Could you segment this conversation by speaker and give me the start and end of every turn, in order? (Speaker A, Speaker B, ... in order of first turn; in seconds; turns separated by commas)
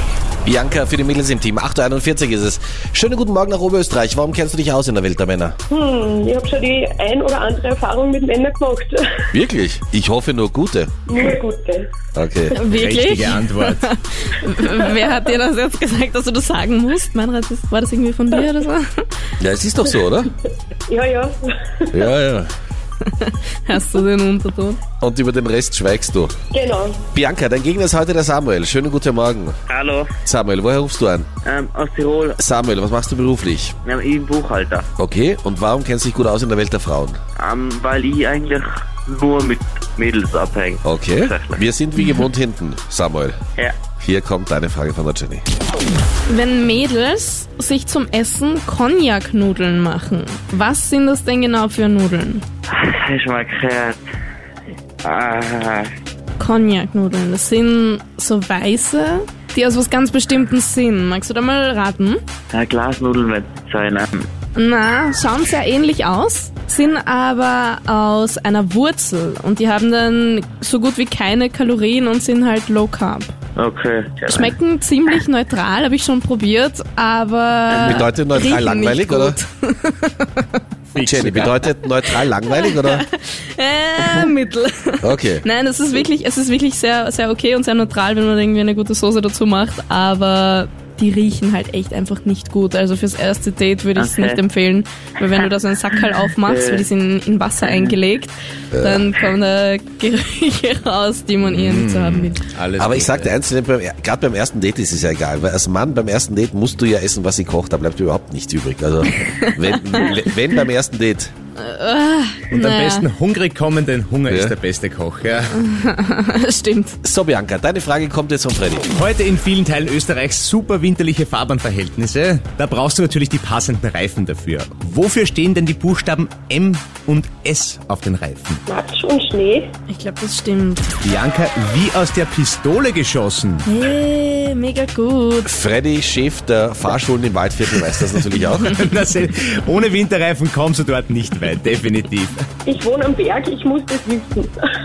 Speaker A: 0.4-5.6, Speaker B: 5.7-9.1, Speaker A: 9.3-10.9, Speaker B: 11.1-11.9, Speaker A: 12.1-12.6, Speaker C: 12.5-19.1, Speaker D: 12.6-13.9, Speaker A: 19.4-20.3, Speaker B: 20.9-22.0, Speaker A: 21.9-22.5, Speaker C: 23.1-24.8, Speaker A: 25.0-26.4, Speaker B: 26.5-27.0, Speaker A: 27.1-29.6, Speaker E: 29.7-30.1, Speaker A: 30.2-31.3, Speaker E: 31.4-32.4, Speaker A: 32.4-33.8, Speaker E: 33.8-34.9, Speaker A: 35.0-37.2, Speaker E: 37.4-41.6, Speaker A: 40.8-43.4, Speaker A: 44.0-45.4, Speaker C: 46.3-52.4, Speaker E: 52.7-54.0, Speaker E: 55.0-55.9, Speaker C: 56.4-62.2, Speaker E: 62.5-64.3, Speaker C: 64.5-73.3, Speaker E: 73.5-74.5, Speaker C: 74.3-80.6, Speaker E: 77.7-78.0, Speaker A: 77.8-79.4, Speaker D: 80.9-81.5, Speaker A: 81.0-83.0, Speaker C: 82.1-102.4, Speaker A: 85.0-85.4, Speaker E: 94.0-94.4, Speaker E: 96.5-96.9, Speaker E: 97.6-97.9, Speaker A: 98.7-99.1, Speaker D: 101.4-103.3, Speaker A: 102.8-111.3, Speaker C: 109.3-110.1, Speaker C: 111.6-113.1, Speaker D: 112.5-115.6, Speaker A: 114.3-114.5, Speaker C: 115.5-117.0, Speaker A: 117.0-118.8, Speaker D: 119.0-128.6, Speaker B: 128.7-129.7, Speaker C: 129.9-130.9, Speaker D: 131.0-133.6, Speaker C: 133.6-135.5, Speaker A: 135.4-138.7, Speaker D: 138.6-142.4, Speaker B: 142.7-144.5